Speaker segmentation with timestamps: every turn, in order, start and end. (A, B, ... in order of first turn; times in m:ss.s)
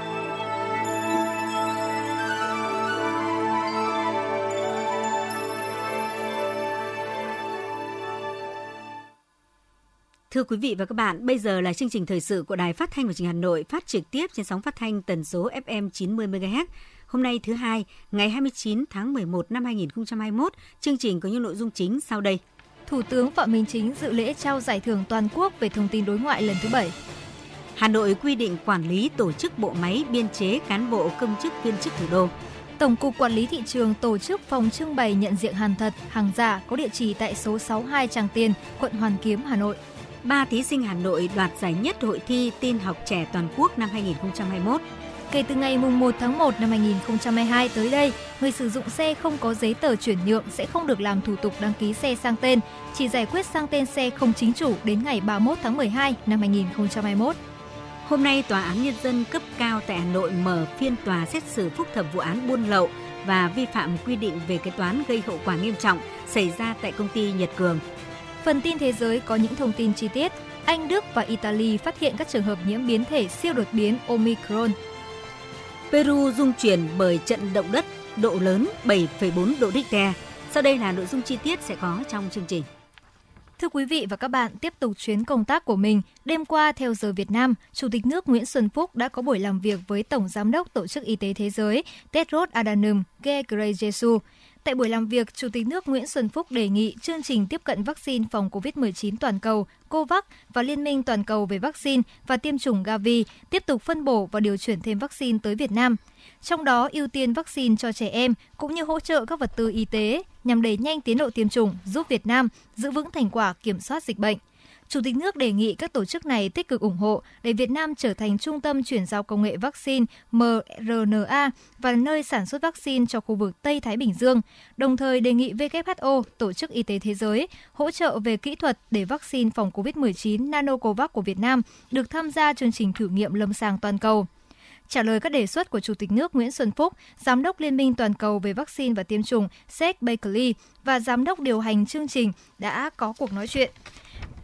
0:10.3-0:22.4 A
0:22.9-0:27.0 B
0:27.8-0:32.3 A
0:32.8-0:39.8 B
0:40.2-0:44.8 A
0:45.3-0:57.4 B
0:58.0-1:07.8 A
1:08.4-1:14.8 B
1:15.9-1:22.7 A
1:23.6-2:14.3 B
2:14.9-2:23.7 B